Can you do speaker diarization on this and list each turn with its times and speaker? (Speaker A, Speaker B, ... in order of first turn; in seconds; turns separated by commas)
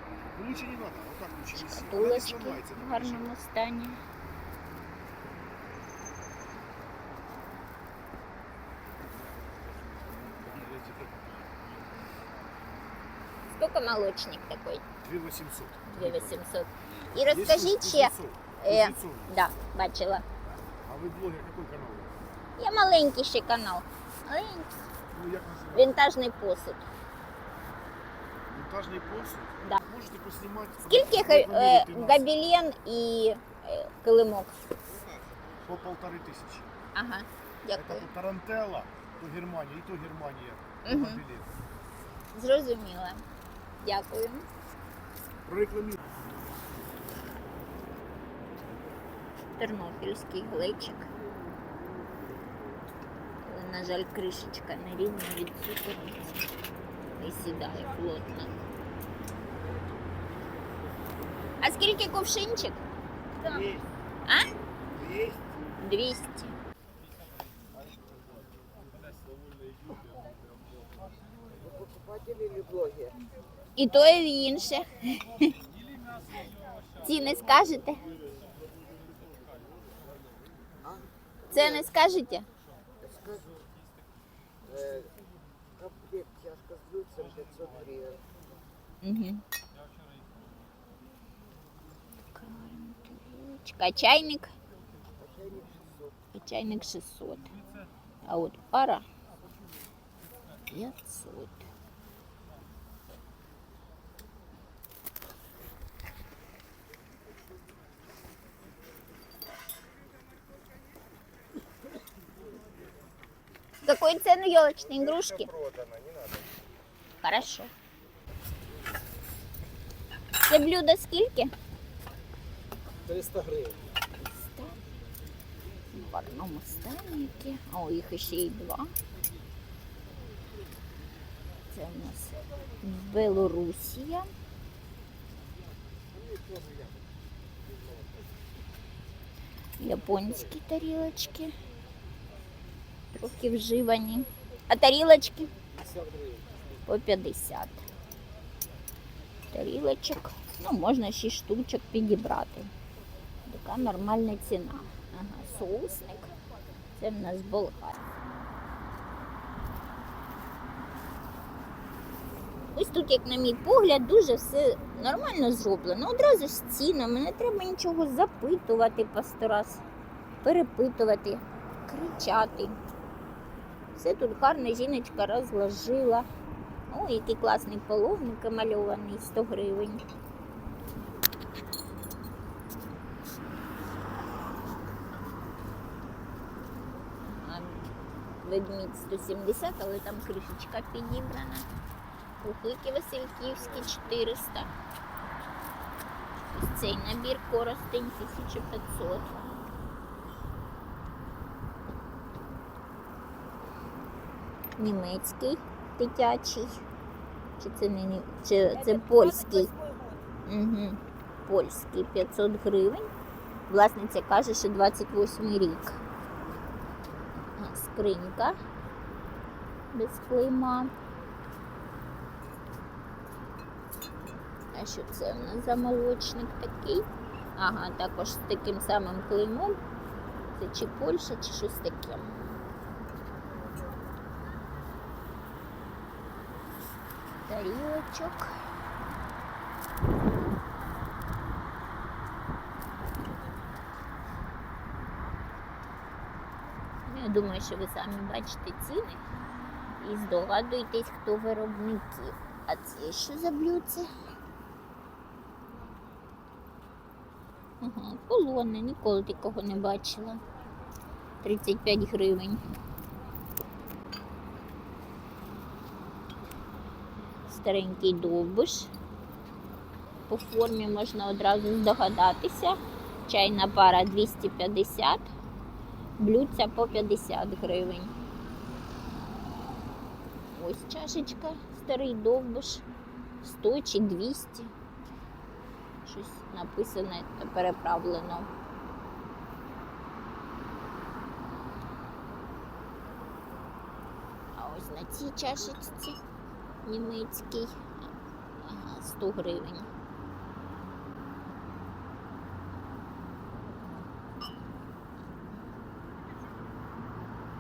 Speaker A: 0.3-3.3, Speaker B: 1.6-4.0, Speaker A: 9.6-12.2, Speaker B: 13.5-14.8, Speaker A: 15.0-16.4, Speaker B: 15.9-20.3, Speaker A: 17.2-19.4, Speaker A: 20.8-22.2, Speaker B: 22.6-24.9, Speaker A: 25.1-26.0, Speaker B: 25.7-26.8, Speaker A: 28.5-32.3, Speaker B: 30.8-34.5, Speaker C: 34.9-35.7, Speaker A: 35.6-36.7, Speaker B: 37.0-38.1, Speaker A: 37.7-41.5, Speaker B: 40.9-41.2, Speaker B: 42.3-43.2, Speaker B: 43.8-44.5, Speaker A: 45.5-46.0, Speaker B: 49.6-51.1, Speaker B: 53.5-56.5, Speaker B: 57.2-58.5, Speaker B: 61.6-62.8, Speaker B: 65.8-66.6, Speaker D: 71.6-73.1, Speaker B: 73.8-75.5, Speaker B: 77.0-78.0, Speaker B: 81.5-82.5, Speaker D: 85.8-88.1, Speaker B: 89.0-89.4, Speaker B: 92.3-94.5, Speaker D: 95.2-96.1, Speaker B: 96.3-97.5, Speaker B: 98.2-99.0, Speaker B: 100.7-101.7, Speaker B: 113.8-115.5, Speaker C: 114.8-116.5, Speaker B: 117.2-117.7, Speaker B: 120.4-121.5, Speaker A: 123.0-123.9, Speaker B: 124.3-124.8, Speaker B: 125.9-128.9, Speaker B: 131.7-134.3, Speaker A: 136.1-137.0, Speaker A: 137.6-138.3, Speaker B: 139.8-141.5, Speaker B: 143.1-145.5, Speaker A: 145.8-146.5, Speaker B: 146.9-147.8, Speaker B: 149.5-152.7, Speaker B: 153.4-156.3, Speaker B: 157.0-158.1, Speaker B: 162.7-169.8, Speaker B: 170.4-172.8, Speaker B: 174.0-176.3, Speaker B: 176.9-180.0, Speaker B: 187.4-187.8, Speaker B: 188.4-191.7, Speaker B: 192.4-194.7, Speaker B: 196.5-199.3, Speaker B: 204.8-206.8, Speaker B: 207.6-209.7, Speaker B: 210.5-213.1, Speaker B: 213.7-216.0, Speaker B: 217.6-218.6, Speaker B: 219.9-220.9, Speaker B: 224.7-227.1, Speaker B: 227.6-229.8, Speaker B: 230.6-232.5, Speaker B: 237.5-238.5, Speaker B: 247.1-249.2, Speaker B: 250.0-254.1, Speaker B: 257.8-260.4, Speaker B: 261.4-262.6, Speaker B: 267.5-268.9, Speaker B: 270.3-275.3, Speaker B: 276.2-278.1, Speaker B: 280.5-282.9, Speaker B: 283.4-284.7, Speaker B: 286.1-288.5, Speaker B: 294.6-296.2, Speaker B: 296.9-298.1, Speaker B: 298.6-299.9